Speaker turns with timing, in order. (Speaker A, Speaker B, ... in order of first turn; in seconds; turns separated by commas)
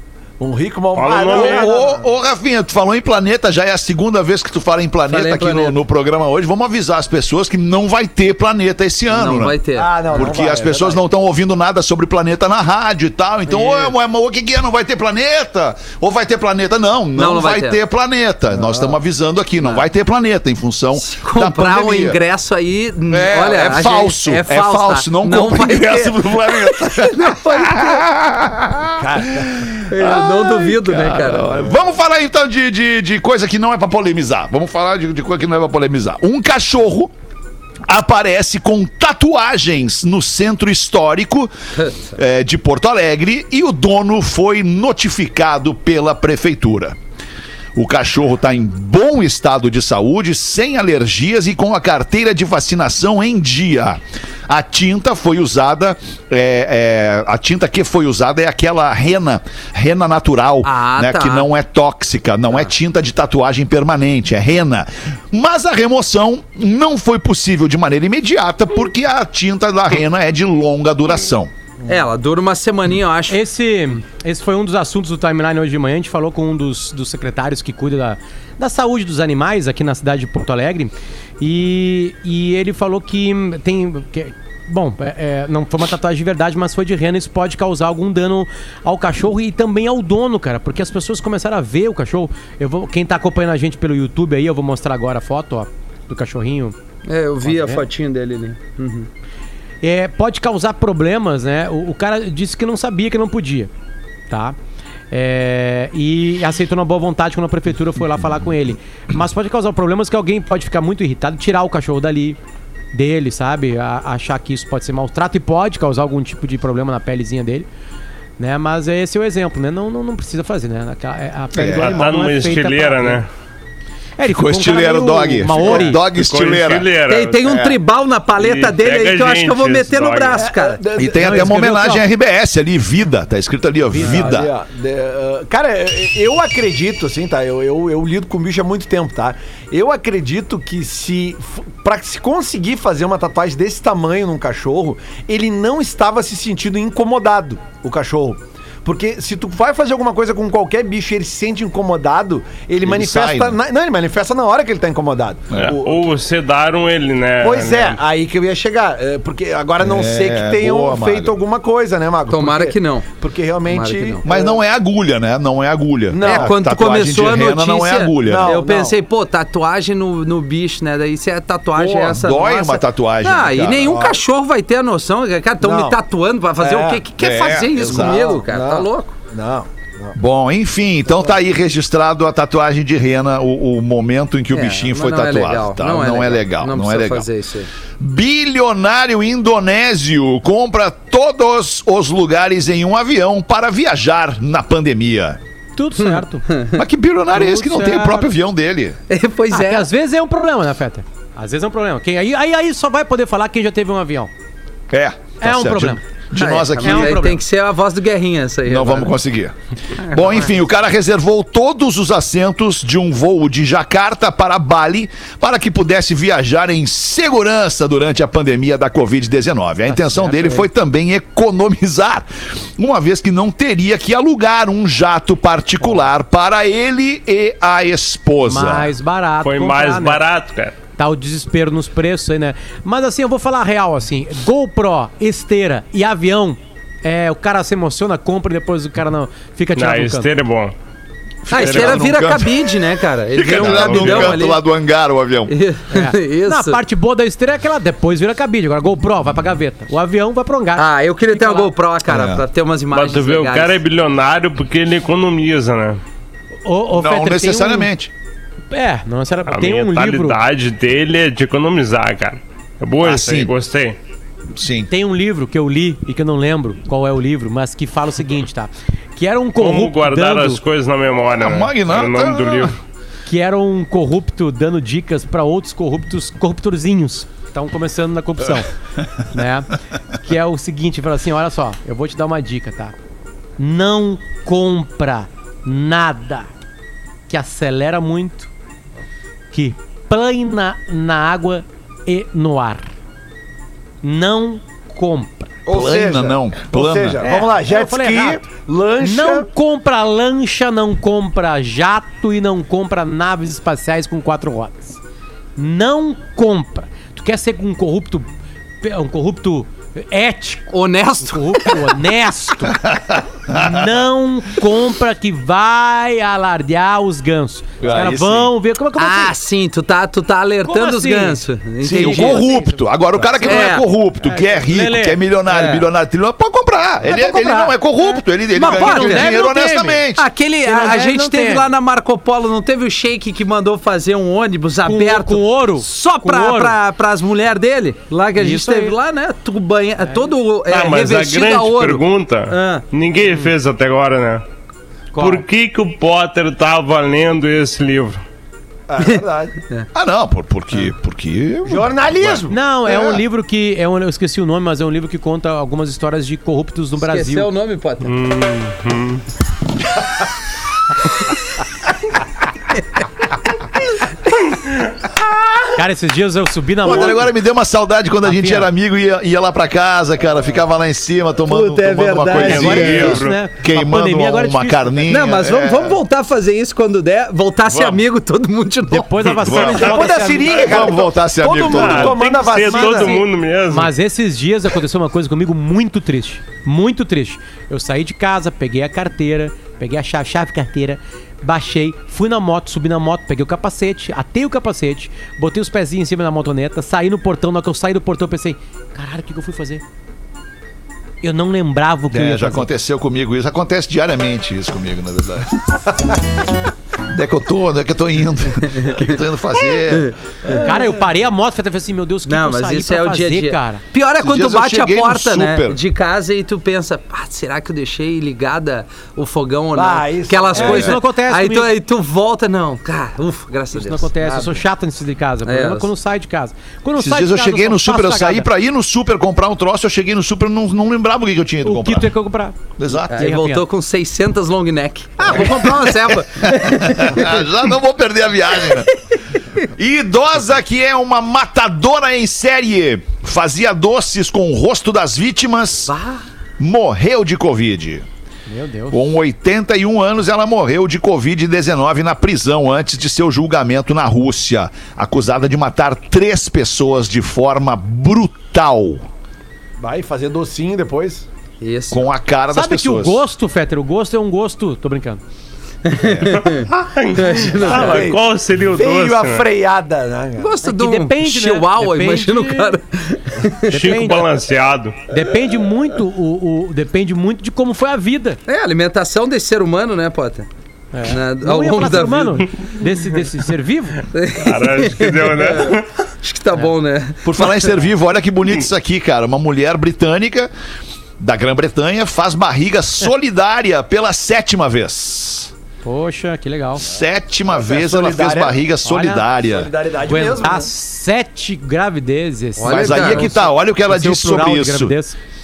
Speaker A: 0.4-2.1, Speaker B: 0.9-1.8, Speaker C: 1.3-9.6, Speaker D: 5.1-5.8, Speaker D: 9.1-9.9, Speaker A: 9.8-11.0, Speaker C: 10.1-22.2, Speaker D: 13.5-13.9, Speaker D: 17.1-17.8, Speaker A: 18.6-19.0, Speaker D: 19.6-19.9, Speaker D: 21.0-28.1, Speaker C: 23.1-37.1, Speaker A: 28.9-29.5, Speaker D: 29.9-31.5, Speaker C: 37.9-41.5, Speaker C: 42.1-47.0, Speaker C: 47.8-71.5, Speaker D: 60.6-61.5, Speaker D: 71.9-73.4, Speaker E: 73.3-96.8, Speaker D: 97.1-99.1, Speaker E: 97.5-97.8, Speaker E: 99.8-103.7, Speaker E: 104.3-104.6, Speaker E: 105.1-112.4, Speaker E: 112.9-117.7, Speaker E: 118.4-123.2, Speaker C: 121.5-122.0, Speaker B: 121.7-123.3, Speaker E: 124.2-126.0, Speaker C: 124.3-126.9, Speaker B: 125.7-127.5, Speaker D: 127.1-130.8, Speaker C: 127.5-127.8, Speaker B: 128.4-130.4, Speaker A: 130.4-131.9, Speaker C: 130.9-134.5, Speaker E: 131.2-132.0, Speaker E: 133.9-134.4, Speaker A: 134.0-156.2, Speaker C: 152.8-153.6, Speaker B: 155.6-158.0, Speaker A: 157.4-164.6, Speaker C: 159.8-161.4, Speaker D: 162.3-163.1, Speaker D: 163.7-164.2, Speaker C: 164.2-168.6, Speaker A: 166.1-166.5, Speaker D: 166.2-179.1, Speaker A: 168.2-169.0, Speaker C: 171.8-174.0, Speaker A: 173.9-174.2, Speaker A: 175.6-176.0, Speaker A: 176.6-177.0, Speaker C: 177.2-178.4, Speaker A: 177.8-180.2, Speaker C: 180.2-187.3, Speaker D: 184.5-187.7, Speaker C: 188.0-195.4, Speaker E: 195.8-196.5, Speaker D: 196.0-196.8, Speaker C: 196.7-199.0, Speaker E: 197.3-198.3, Speaker D: 199.1-199.9, Speaker E: 199.5-204.3, Speaker C: 204.9-207.3, Speaker E: 205.4-206.0, Speaker D: 206.4-209.2, Speaker E: 206.8-207.4, Speaker C: 208.7-228.9, Speaker D: 210.1-210.4, Speaker E: 219.9-220.7, Speaker E: 228.5-230.2, Speaker B: 229.4-230.8, Speaker E: 231.0-240.3, Speaker B: 239.8-240.8, Speaker C: 241.5-242.5, Speaker D: 241.5-244.6, Speaker B: 241.5-242.1, Speaker C: 243.3-245.5, Speaker B: 243.5-244.4, Speaker D: 245.5-246.8, Speaker E: 245.9-251.7, Speaker D: 250.8-253.8, Speaker C: 252.1-252.4, Speaker B: 252.9-256.0, Speaker E: 256.6-257.9, Speaker C: 256.9-258.1, Speaker E: 258.7-260.4, Speaker B: 259.5-264.0, Speaker C: 263.0-263.5, Speaker C: 264.5-264.9, Speaker E: 264.9-270.6, Speaker B: 269.6-272.8, Speaker C: 271.4-272.7, Speaker E: 273.3-278.7, Speaker E: 279.3-283.0, Speaker E: 283.6-286.5, Speaker E: 287.3-288.5, Speaker E: 289.5-292.9, Speaker E: 294.0-295.5, Speaker A: 295.7-299.5, Speaker C: 295.7-297.3, Speaker E: 297.2-298.5, Speaker E: 299.0-305.0, Speaker E: 305.6-308.3, Speaker E: 308.8-312.8, Speaker D: 310.7-311.8, Speaker C: 312.9-313.8, Speaker E: 313.5-319.4, Speaker C: 317.8-318.5, Speaker D: 319.0-322.5, Speaker E: 320.6-325.2, Speaker C: 321.8-330.3, Speaker D: 323.4-323.9, Speaker D: 325.5-325.9, Speaker E: 327.1-330.0, Speaker D: 328.6-329.4, Speaker D: 330.2-342.9, Speaker E: 330.6-331.7, Speaker E: 334.9-336.8, Speaker E: 338.4-338.9, Speaker B: 340.7-344.4, Speaker E: 345.1-345.4, Speaker B: 345.2-348.2, Speaker A: 348.9-349.6, Speaker D: 349.0-349.9, Speaker C: 349.9-353.2, Speaker A: 351.7-352.6, Speaker E: 352.5-357.5, Speaker D: 357.0-358.1, Speaker B: 358.0-359.2, Speaker E: 365.8-367.3, Speaker C: 366.8-376.0, Speaker E: 368.2-368.7, Speaker D: 371.5-373.1, Speaker B: 372.3-373.4, Speaker E: 372.5-375.1, Speaker D: 375.1-379.4, Speaker C: 377.7-378.0, Speaker E: 378.9-380.6, Speaker C: 379.4-382.2, Speaker A: 379.7-383.2, Speaker B: 381.6-383.9, Speaker E: 382.6-399.8, Speaker E: 401.2-402.7, Speaker C: 402.1-406.2, Speaker C: 407.1-410.1, Speaker D: 408.8-409.1, Speaker D: 409.9-410.1, Speaker A: 410.5-410.7, Speaker E: 410.6-413.8, Speaker D: 412.3-424.1, Speaker C: 414.2-415.8, Speaker A: 419.8-420.9, Speaker E: 420.5-421.7, Speaker E: 423.7-428.5, Speaker A: 424.2-424.6, Speaker D: 425.4-425.9, Speaker C: 427.0-432.1, Speaker E: 431.6-432.6, Speaker C: 432.8-433.2, Speaker D: 433.1-437.4, Speaker E: 433.1-433.6, Speaker E: 435.2-435.6, Speaker C: 436.4-438.9, Speaker C: 439.7-445.9, Speaker D: 445.9-446.2, Speaker C: 446.6-448.1, Speaker E: 448.5-449.0, Speaker C: 448.9-459.1, Speaker A: 459.8-461.3, Speaker D: 461.6-462.1, Speaker C: 461.9-463.2, Speaker E: 462.5-465.2, Speaker D: 465.9-468.1, Speaker C: 466.0-466.3, Speaker B: 466.5-469.5, Speaker A: 467.6-470.6, Speaker D: 470.4-473.7, Speaker E: 470.6-472.8, Speaker E: 473.7-474.3, Speaker B: 473.7-475.0, Speaker E: 475.1-478.4, Speaker D: 478.5-480.5, Speaker E: 480.9-484.0, Speaker D: 481.1-482.5, Speaker D: 484.1-487.7, Speaker B: 484.4-485.9, Speaker C: 487.2-490.5, Speaker C: 491.2-495.5, Speaker E: 495.8-496.9, Speaker C: 496.8-499.7, Speaker A: 497.5-498.6, Speaker E: 498.8-499.3, Speaker A: 499.4-500.7, Speaker E: 500.1-505.2, Speaker D: 502.6-503.3, Speaker C: 502.6-505.0